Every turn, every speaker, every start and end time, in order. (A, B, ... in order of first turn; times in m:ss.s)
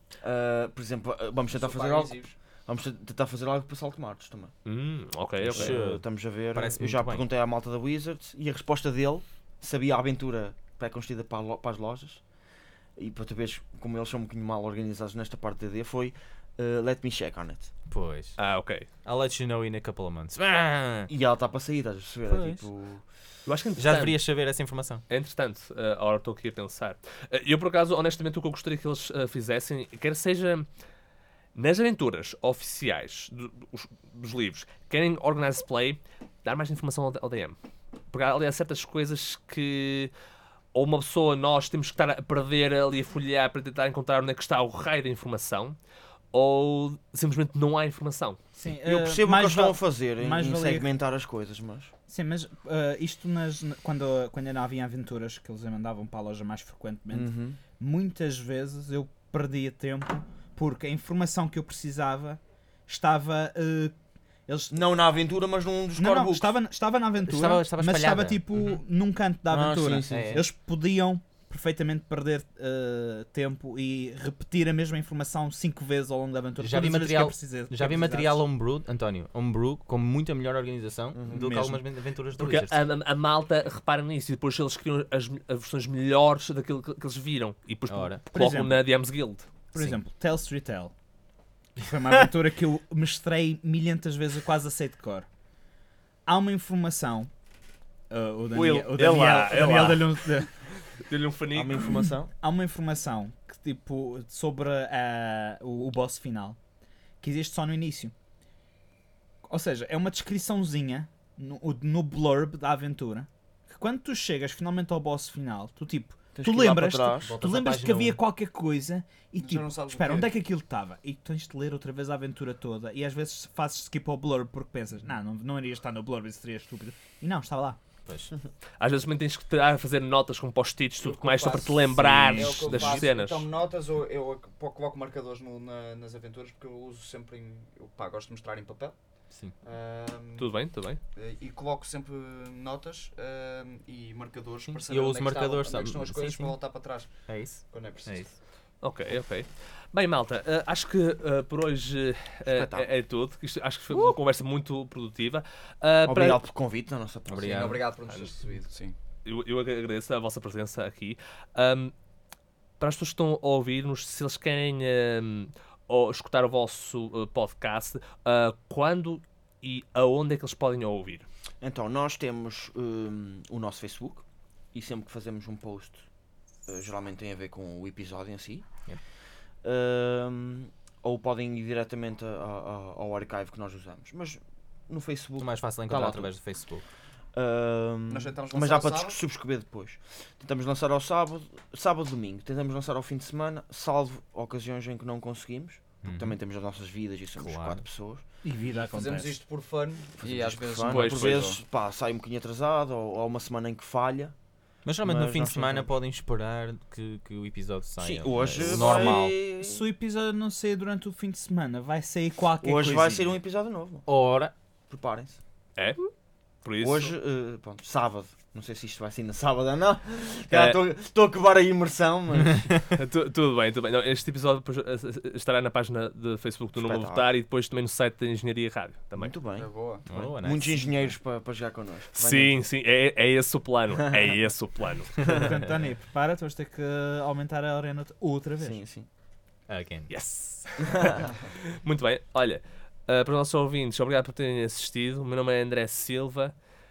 0:00.2-0:04.5 A
0:01.5-0:02.4 B
0:04.7-0:05.8 C
0:05.4-0:07.3 D
0:05.5-0:12.2 A
0:13.0-0:17.7 A
0:17.9-0:18.4 D
0:18.4-0:18.9 C
0:19.0-0:21.1 D
0:21.1-0:23.0 A
0:22.3-0:22.7 D
0:23.5-0:24.2 C
0:23.8-0:25.0 D
0:25.1-0:30.7 C
0:31.6-0:37.6 C
0:38.1-0:40.1 C
0:40.7-0:45.8 C
0:46.3-0:48.4 C
0:48.6-0:50.9 E
0:48.7-0:51.9 A
0:52.1-1:03.9 E
0:57.1-0:57.6 A
1:04.5-1:04.9 E
1:04.7-1:06.6 A
1:06.0-1:18.4 E
1:07.2-1:08.4 D
1:09.5-1:10.5 A
1:10.1-1:10.4 D
1:16.6-1:22.8 D
1:21.1-1:21.7 A
1:21.3-1:21.8 E
1:22.4-1:29.5 C
1:27.9-1:28.2 D
1:28.3-1:28.8 E
1:29.7-1:30.9 E
1:31.8-1:35.3 E
1:36.3-1:37.3 E
1:38.1-1:40.5 E
1:38.5-1:40.5 C
1:41.0-1:42.0 C
1:41.5-1:42.3 A
1:42.4-1:46.6 E
1:47.2-1:48.1 E
1:49.5-2:07.8 E
1:56.4-1:57.3 A
1:57.2-1:58.2 D
1:59.4-2:00.3 B
2:08.1-2:08.3 D
2:08.8-2:13.5 C
2:11.0-2:19.0 B
2:12.0-2:13.0 E
2:19.6-2:20.5 B
2:20.4-2:21.0 C
2:21.2-2:28.3 B
2:24.7-2:26.6 D
2:27.3-2:28.4 D
2:28.8-2:36.4 C
2:32.4-2:32.9 A
2:36.0-2:37.7 A
2:37.3-2:37.8 D
2:37.4-2:39.0 B
2:39.3-2:41.9 C
2:42.8-2:51.3 C
2:51.6-2:56.0 A
2:56.7-2:58.7 A
2:59.6-3:06.3 A
3:05.4-3:06.8 D
3:07.3-3:18.2 A
3:08.1-3:09.2 B
3:16.0-3:16.4 D
3:17.4-3:17.8 D
3:18.4-3:19.4 E
3:18.7-3:21.6 B
3:20.2-3:24.4 A
3:20.8-3:21.5 C
3:24.9-3:29.4 D
3:25.0-3:25.9 A
3:28.0-3:29.9 A
3:28.8-3:33.4 E
3:32.6-3:34.1 A
3:34.1-3:34.5 D
3:34.9-3:35.4 A
3:35.8-3:36.1 C
3:36.6-3:37.1 C
3:36.8-3:42.7 A
3:40.5-3:40.8 C
3:42.9-3:49.3 C
3:46.8-3:47.3 A
3:49.2-3:52.6 A
3:49.6-3:50.3 B
3:50.1-3:51.2 D
3:52.2-3:55.2 C
3:54.1-3:54.3 A
3:55.2-3:58.8 E
3:58.6-3:59.1 A
3:59.7-4:00.1 D
4:00.1-4:06.5 C